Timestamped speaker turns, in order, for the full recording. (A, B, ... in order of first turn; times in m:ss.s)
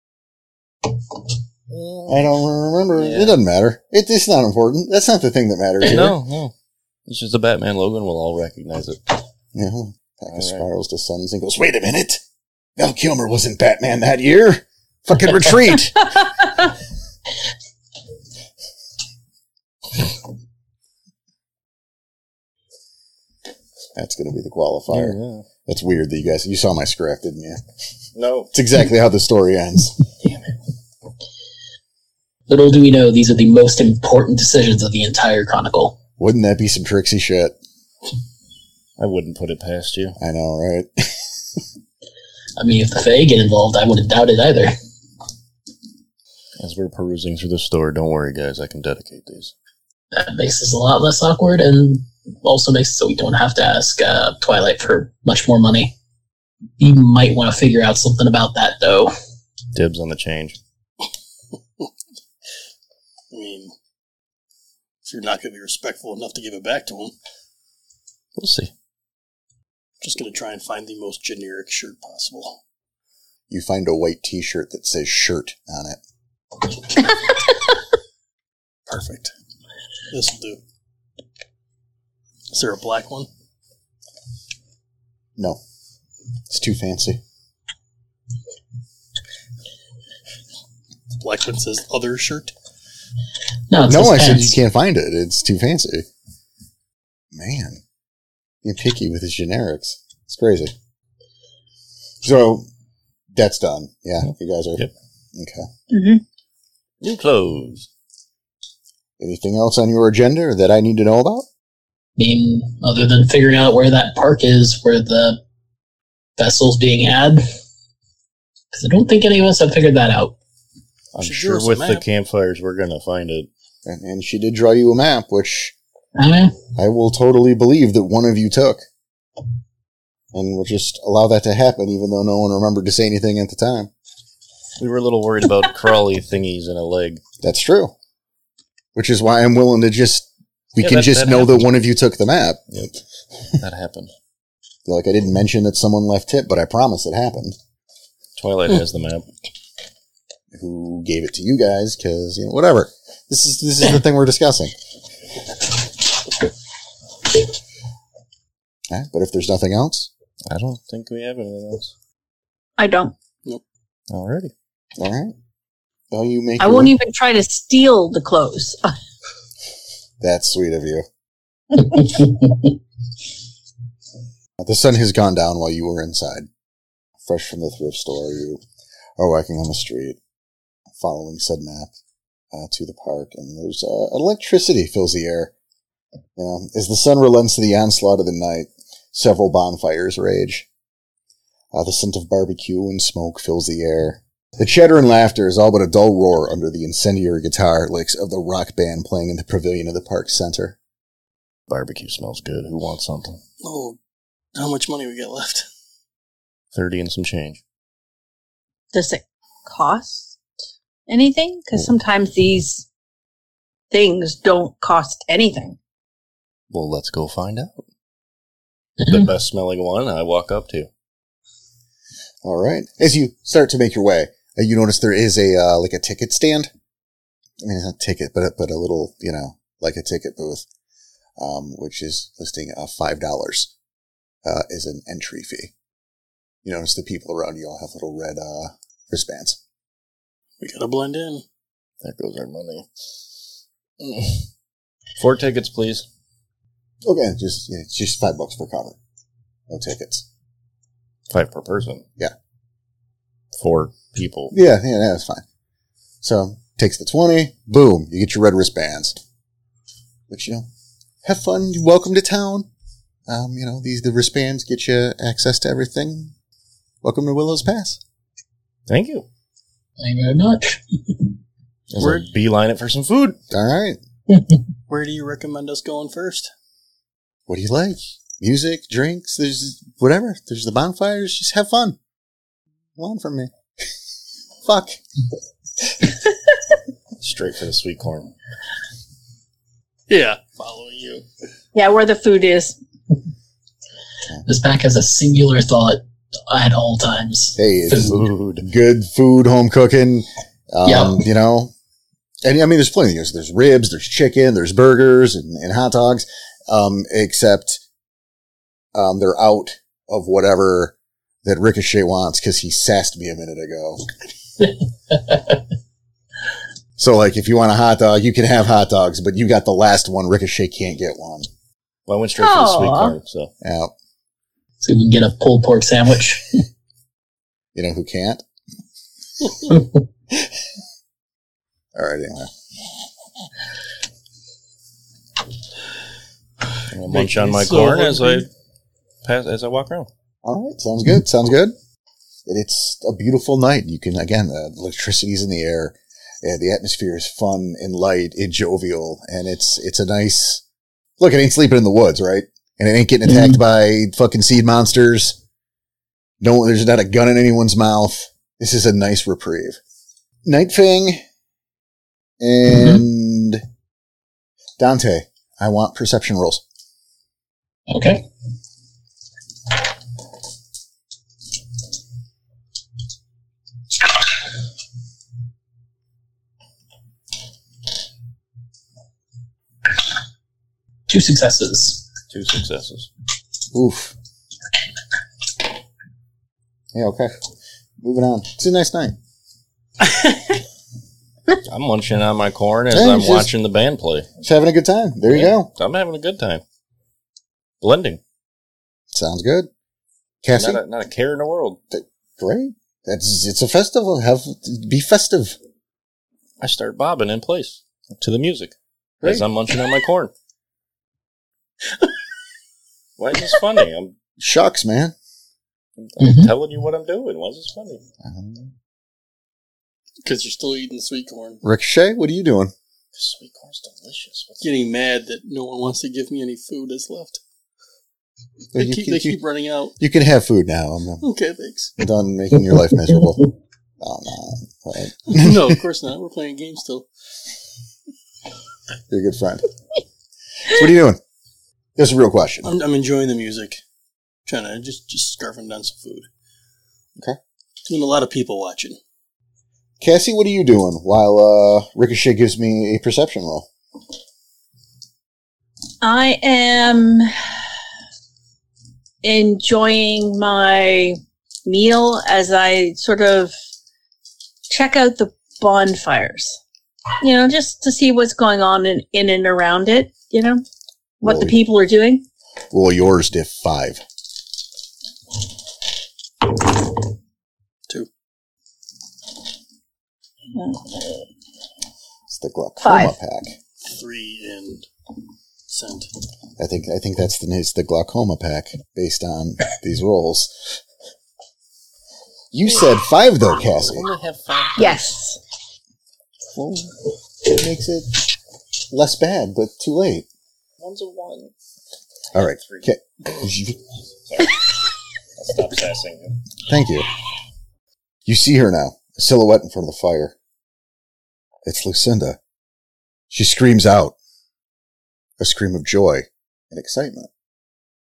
0:01.7-0:02.3 A
0:02.1-0:06.1 B
0:03.0-0:03.4 A
0:05.8-0:06.5 A
0:07.0-0:09.2 A
0:09.5-0:12.2 B
0:10.3-0:10.6 A
0:12.8-0:16.7 B
0:23.9-0:27.6 B
0:24.9-0:25.4 A
0:28.1-0:28.5 A
0:28.5-0:30.0 B
0:32.5-0:36.0 C
0:36.2-0:37.6 B
0:39.0-0:40.2 A
0:40.2-0:41.3 B
0:42.6-0:44.7 C
0:46.6-0:49.5 A
0:50.1-0:55.9 C
0:56.8-0:59.1 C
0:59.7-1:00.6 A
1:03.3-1:03.7 D
1:05.0-1:07.1 D
1:08.4-1:08.7 A
1:10.0-1:12.6 D
1:13.5-1:16.0 B
1:18.9-1:19.3 D
1:20.1-1:20.6 D
1:22.5-1:23.3 D
1:26.5-1:27.2 B
1:31.2-1:32.5 D
1:33.7-1:34.6 C
1:33.8-1:36.1 B
1:37.3-1:37.8 B
1:38.6-1:40.7 B
1:42.2-1:42.7 B
1:43.3-1:45.7 B
1:45.9-1:46.2 E
1:47.0-1:47.9 A
1:49.2-1:51.4 B
1:52.2-1:55.4 C
1:56.4-1:57.4 C
1:58.7-2:00.3 C
2:01.1-2:03.5 A
2:01.2-2:02.0 D
2:03.8-2:05.7 B
2:06.2-2:06.6 C
2:06.8-2:08.8 B
2:10.3-2:13.9 B
2:14.8-2:17.2 A
2:17.4-2:17.9 B
2:18.9-2:22.6 B
2:20.8-2:21.7 A
2:23.6-2:24.1 A
2:24.8-2:27.6 B
2:28.4-2:29.3 A
2:30.5-2:34.7 B
2:38.9-2:40.1 B
2:40.5-2:41.9 A
2:42.8-2:43.1 E
2:44.1-2:44.5 A
2:45.0-2:45.3 B
2:46.1-2:46.9 B
2:46.6-2:48.9 E
2:50.2-2:51.0 B
2:54.6-2:56.5 B
2:57.2-2:58.6 B
2:59.2-3:00.2 B
3:01.0-3:01.9 B
3:02.5-3:05.5 B
3:06.4-3:10.7 B
3:11.7-3:20.8 B
3:21.7-3:23.4 A
3:23.6-3:24.0 D
3:24.5-3:25.6 D
3:26.7-3:27.6 A
3:28.9-3:30.3 E
3:31.1-3:32.8 E
3:33.9-3:35.8 E
3:36.7-3:37.8 A
3:39.0-3:39.2 C
3:39.0-3:40.9 A
3:42.4-3:46.7 B
3:47.6-3:50.6 B
3:51.4-3:53.7 B
3:54.4-3:55.7 B
3:56.6-3:59.6 B
4:00.6-4:01.4 D
4:02.0-4:02.9 A
4:04.0-4:04.4 A
4:05.2-4:06.1 A
4:07.0-4:09.0 B
4:09.7-4:10.2 B
4:11.3-4:12.0 A
4:13.6-4:14.5 A
4:14.5-4:15.4 B
4:16.2-4:19.2 B
4:20.3-4:20.7 B
4:21.2-4:22.7 B
4:23.3-4:26.3 B
4:27.0-4:28.0 B
4:28.9-4:29.3 A
4:30.0-4:31.3 C
4:31.9-4:33.4 A
4:32.0-4:32.3 D
4:33.5-4:34.0 B
4:34.9-4:36.5 D
4:37.5-4:42.0 B
4:43.0-4:43.5 B
4:44.6-4:45.0 B
4:47.2-4:48.3 A
4:50.1-4:51.2 D
4:51.7-4:52.8 E
4:54.4-4:58.2 C
4:57.6-5:01.7 B
4:58.0-4:58.6 A
5:00.8-5:01.2 C
5:02.4-5:07.8 B
5:08.9-5:14.1 B
5:15.1-5:15.4 C
5:17.0-5:21.5 B
5:22.1-5:23.5 A
5:22.4-5:23.2 E
5:23.6-5:23.9 B
5:24.8-5:26.6 C
5:27.7-5:28.4 B
5:31.9-5:32.5 B
5:36.9-5:38.5 A
5:37.1-5:38.5 D
5:39.2-5:40.1 A
5:40.4-5:41.7 B
5:42.4-5:50.6 B
5:51.2-5:55.4 B
5:53.2-5:53.6 C
5:56.4-5:59.8 B
6:00.4-6:01.2 B
6:02.4-6:03.6 B
6:02.7-6:03.0 C
6:04.8-6:06.6 B
6:07.9-6:08.3 C
6:21.1-6:22.0 C
6:22.3-6:23.1 A
6:23.7-6:24.1 B
6:26.9-6:27.3 B
6:28.0-6:29.2 B
6:31.6-6:34.3 A
6:32.9-6:33.5 B
6:34.4-6:35.7 B
6:35.3-6:36.6 A
6:37.8-6:38.2 A
6:39.1-6:39.7 B
6:40.4-6:40.8 B
6:40.5-6:41.8 A
6:41.9-6:45.6 B
6:46.6-6:50.3 A
6:49.2-6:49.4 B
6:53.2-6:54.2 A
6:54.4-6:55.1 B
6:56.0-6:58.0 A
6:56.2-6:56.5 C
6:58.2-6:58.7 B
7:00.2-7:01.6 D
7:01.6-7:02.7 B
7:03.1-7:04.7 A
7:04.6-7:07.4 D
7:08.7-7:09.4 B
7:08.8-7:09.9 D
7:10.0-7:11.2 B
7:11.2-7:11.9 D
7:12.0-7:13.5 B
7:14.0-7:15.8 B
7:15.3-7:17.0 D
7:19.1-7:19.7 B
7:20.6-7:21.2 B
7:22.0-7:22.8 B
7:22.6-7:23.8 D
7:24.5-7:26.3 D
7:27.8-7:29.0 D
7:30.0-7:33.7 B
7:36.0-7:37.3 E
7:39.2-7:43.5 E
7:44.7-7:46.6 E
7:47.2-7:50.6 E
7:51.2-7:52.2 E
7:51.2-7:51.6 B
7:52.7-7:54.0 B
8:00.5-8:00.8 E
8:02.3-8:03.6 B
8:02.8-8:03.2 E
8:03.8-8:04.9 D
8:05.7-8:06.1 D
8:06.6-8:10.8 B
8:12.5-8:14.0 B
8:13.6-8:15.0 A
8:14.8-8:15.4 E
8:16.5-8:18.2 B
8:18.9-8:20.2 B
8:20.8-8:21.5 A
8:22.3-8:23.8 B
8:22.6-8:22.9 A
8:24.3-8:24.6 A
8:25.4-8:26.4 A
8:26.7-8:27.1 B
8:28.2-8:30.3 B
8:31.6-8:32.4 B
8:33.3-8:34.1 B
8:35.4-8:37.3 B